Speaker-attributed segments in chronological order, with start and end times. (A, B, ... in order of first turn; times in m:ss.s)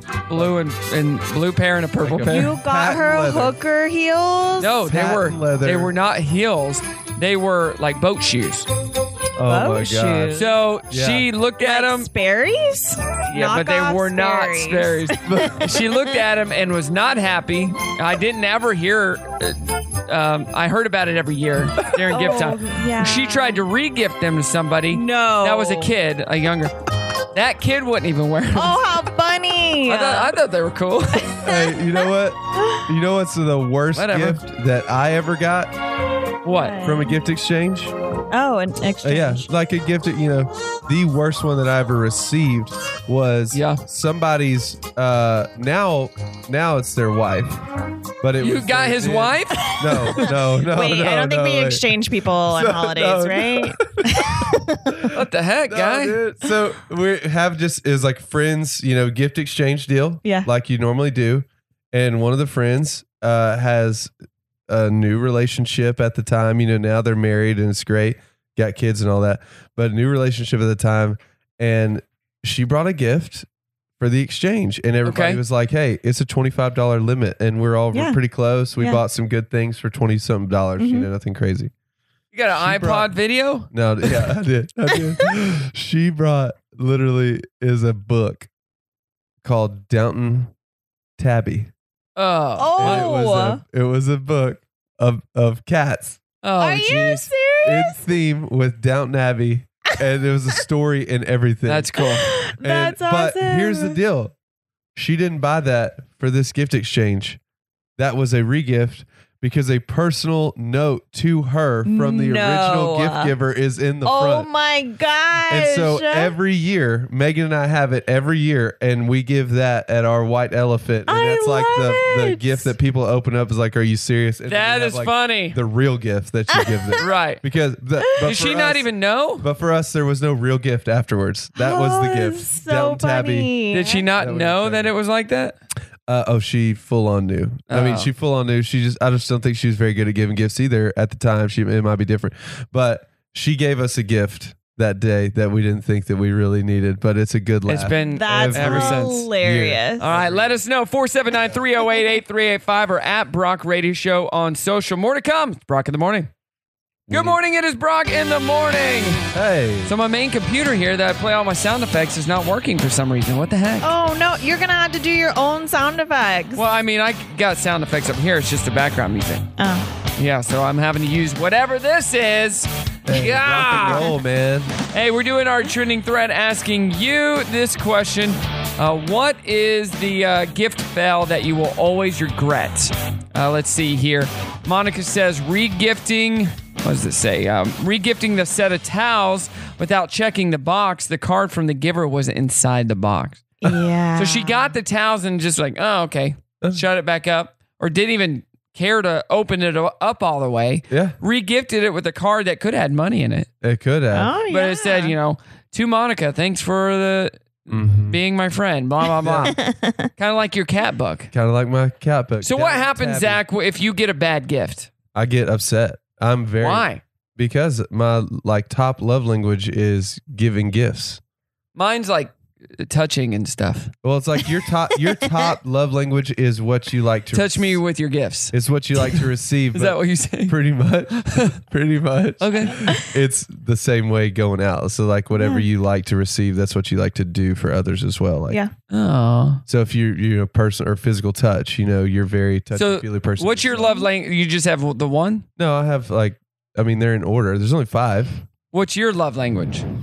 0:00.3-0:02.5 A
0:02.0-0:03.6 B
0:02.3-0:04.8 C
0:04.6-0:08.7 A
0:04.9-0:05.9 B
0:09.4-0:11.3 B
0:09.4-0:10.6 C
0:10.4-0:12.1 A
0:11.6-0:16.0 C
0:13.3-0:26.7 A
0:15.2-0:15.7 B
0:22.1-0:23.6 C
0:24.9-0:25.9 C
0:27.3-0:28.8 A
0:28.6-0:30.4 C
0:29.9-0:31.3 A
0:31.2-0:31.9 C
0:31.4-0:35.7 B
0:32.6-0:32.8 C
0:34.0-0:34.4 A
0:36.4-0:36.8 A
0:36.5-0:37.2 C
0:36.8-0:37.9 B
0:38.3-0:39.5 C
0:39.0-0:47.6 B
0:43.5-0:43.8 A
0:48.2-0:51.8 B
0:48.4-0:49.8 A
0:49.7-0:54.8 C
0:52.5-0:55.1 B
0:55.1-0:56.2 A
0:55.7-1:04.1 B
1:04.7-1:13.5 B
1:14.0-1:21.7 B
1:15.0-1:15.4 A
1:20.8-1:21.1 C
1:22.3-1:23.7 A
1:22.5-1:23.1 B
1:23.7-1:28.5 B
1:29.4-1:30.5 B
1:31.2-1:31.7 B
1:32.2-1:33.1 A
1:32.6-1:33.6 C
1:32.8-1:36.2 B
1:36.4-1:37.3 A
1:36.6-1:38.0 C
1:37.6-1:42.0 B
1:41.7-1:42.3 A
1:42.0-1:44.0 C
1:42.6-1:44.3 B
1:45.0-1:47.4 B
1:48.0-1:54.5 B
1:51.9-1:53.3 C
1:54.0-1:56.3 C
1:55.5-2:08.9 B
2:01.1-2:02.7 C
2:04.5-2:05.6 A
2:06.5-2:07.0 C
2:07.0-2:07.4 A
2:08.2-2:09.5 A
2:09.4-2:13.5 B
2:11.6-2:14.1 C
2:13.7-2:15.6 A
2:14.2-2:14.9 B
2:16.1-2:30.6 B
2:17.7-2:18.1 A
2:27.7-2:29.3 A
2:28.0-2:30.1 C
2:30.0-2:36.3 A
2:37.1-2:37.4 B
2:37.1-2:39.2 A
2:39.3-2:39.9 B
2:39.8-2:43.9 A
2:43.8-2:46.6 C
2:46.6-2:49.5 A
2:49.6-2:49.9 C
2:50.2-2:54.1 A
2:53.1-2:54.7 B
2:54.9-3:13.4 A
3:13.6-3:14.7 C
3:14.2-3:23.5 A
3:20.9-3:21.2 B
3:23.6-3:24.3 B
3:24.1-3:25.2 C
3:24.5-3:29.6 A
3:27.7-3:28.2 B
3:29.2-3:29.6 B
3:29.4-3:30.1 C
3:30.2-3:31.3 A
3:31.3-3:33.4 B
3:32.4-3:34.9 A
3:35.2-3:41.2 B
3:36.6-3:37.0 A
3:41.8-3:43.9 A
3:44.0-3:47.8 B
3:47.3-3:49.2 A
3:48.5-3:58.6 B
3:49.7-3:50.6 A
3:51.2-3:51.5 A
3:52.4-3:53.0 A
3:55.4-3:55.6 C
3:58.9-3:59.6 A
3:59.7-4:03.9 B
4:02.8-4:05.5 A
4:03.8-4:04.1 C
4:05.6-4:08.4 B
4:08.7-4:09.8 A